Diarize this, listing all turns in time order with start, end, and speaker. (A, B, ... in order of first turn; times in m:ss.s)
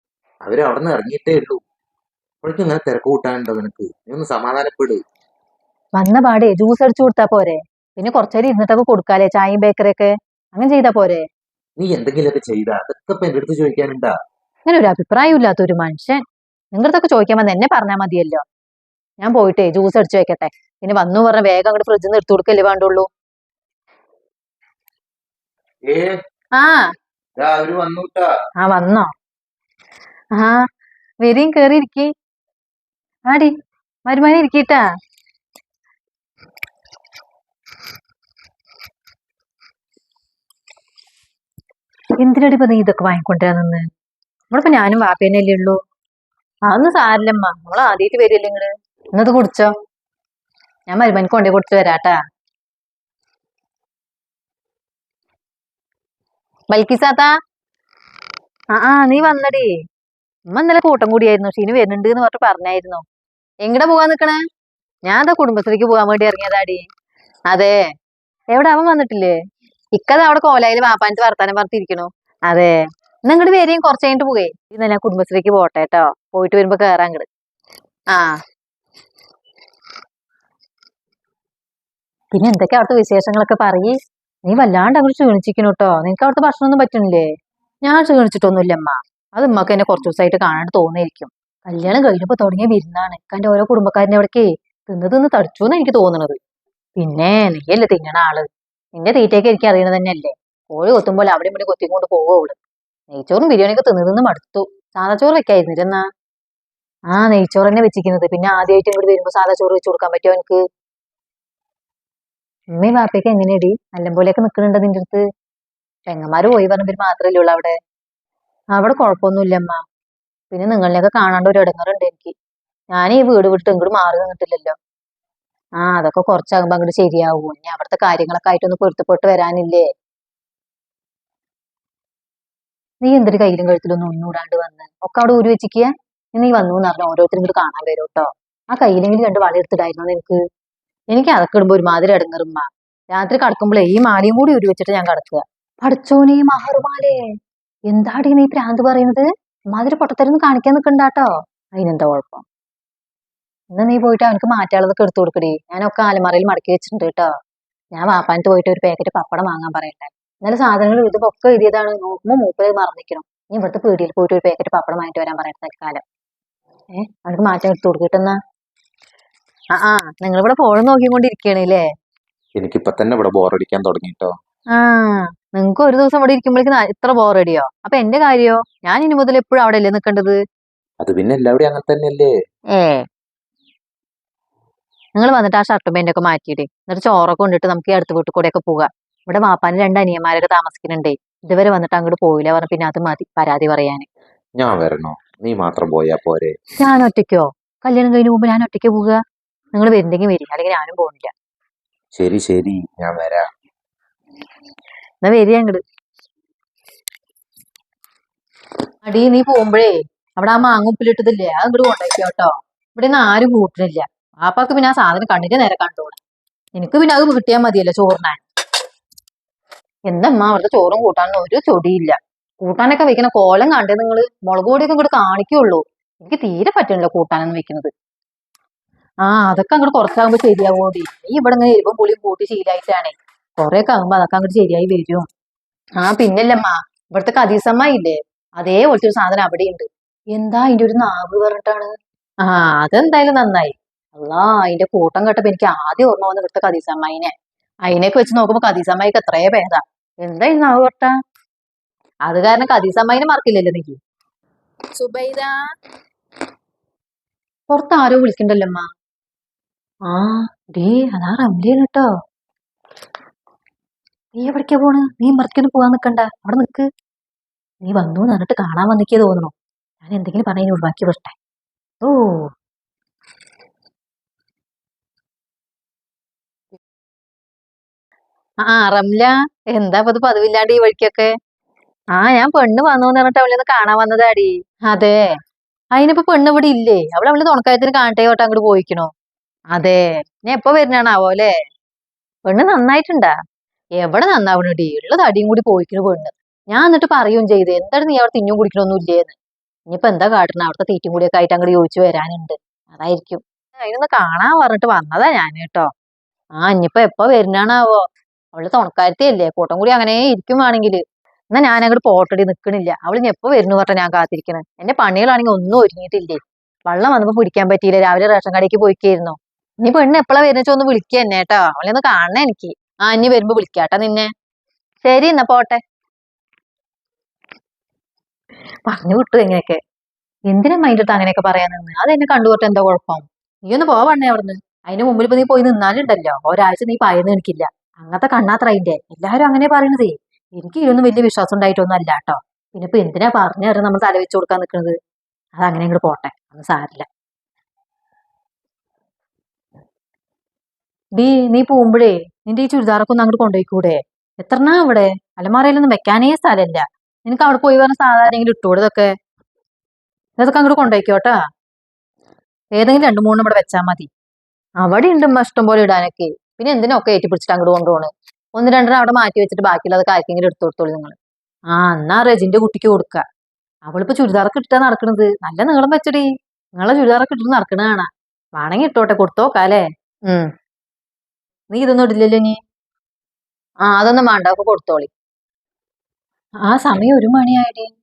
0:00.4-0:01.6 A
0:02.4-0:05.0 A
0:06.0-0:11.2 B
0:11.8-0:14.1 A
0:14.7-0:16.2 B
0:16.7-0:18.4 B
0:19.2-0:23.1 B
0:25.9-0:26.2 A
0:26.6-0:26.8 B
0:27.4-0:28.3 A
0:28.6-0:29.1 B
0:30.3-0:30.6 B
0:31.2-0:32.1 B
0:34.0-0:34.8 B
0:42.2-0:43.9 B
0:44.5-0:45.8 B
0:46.7-0:49.7 B
0:50.9-0:52.1 B
0:56.7-0:57.3 B
0:58.7-0:59.7 B
1:00.5-1:03.0 B
1:03.6-1:04.4 B
1:05.0-1:06.8 B
1:07.5-1:07.7 B
1:08.5-1:09.3 B
1:09.9-1:12.7 B
1:13.3-1:17.2 B
1:18.1-1:18.4 B
1:22.3-1:23.9 B
1:24.5-1:27.2 B
1:27.8-1:36.4 B
1:37.0-1:42.6 B
1:43.1-1:46.0 B
1:47.1-1:50.6 B
1:52.8-1:55.2 B
1:56.1-1:57.7 B
1:58.7-1:59.8 B
2:00.5-2:02.3 B
2:02.9-2:04.8 B
2:05.8-2:09.9 B
2:13.0-2:20.4 B
2:21.1-2:27.2 B
2:27.9-2:32.4 B
2:33.7-2:37.3 B
2:37.9-2:46.0 B
2:46.9-2:48.3 B
2:49.7-2:51.8 B
2:52.6-2:54.3 A
2:54.7-3:00.4 B
3:01.0-3:02.3 A
3:02.7-3:03.0 B
3:05.2-3:14.1 B
3:14.6-3:16.5 A
3:16.8-3:19.2 B
3:19.7-3:21.3 B
3:22.1-3:23.4 A
3:25.2-3:25.8 B
3:29.0-3:36.2 B
3:36.8-3:38.4 B
3:40.1-3:47.9 B
3:49.3-3:55.3 B
3:56.0-4:01.9 B
4:02.4-4:07.3 B
4:07.8-4:11.1 B
4:12.3-4:14.0 B
4:15.0-4:15.5 B
4:17.7-4:18.9 B
4:20.1-4:22.1 B
4:24.4-4:26.8 B
4:27.8-4:31.3 B
4:32.0-4:32.5 B
4:38.6-4:41.3 B
4:42.2-4:45.2 B
4:45.9-4:49.1 B
4:49.7-4:51.5 B
4:52.5-4:53.3 B
4:54.0-4:59.3 B
4:59.9-5:05.9 B
5:06.6-5:08.0 B
5:08.5-5:11.0 B
5:11.5-5:24.3 B
5:25.0-5:25.8 B
5:28.9-5:29.8 B
5:30.5-5:44.9 B
5:45.6-5:47.0 B
5:51.2-5:59.1 B
6:00.4-6:01.4 B
6:02.7-6:04.1 B
6:04.8-6:11.1 B
6:11.7-6:13.2 B
6:13.8-6:16.2 B
6:16.8-6:20.5 B
6:21.7-6:22.6 B
6:23.8-6:25.1 B
6:26.7-6:27.9 B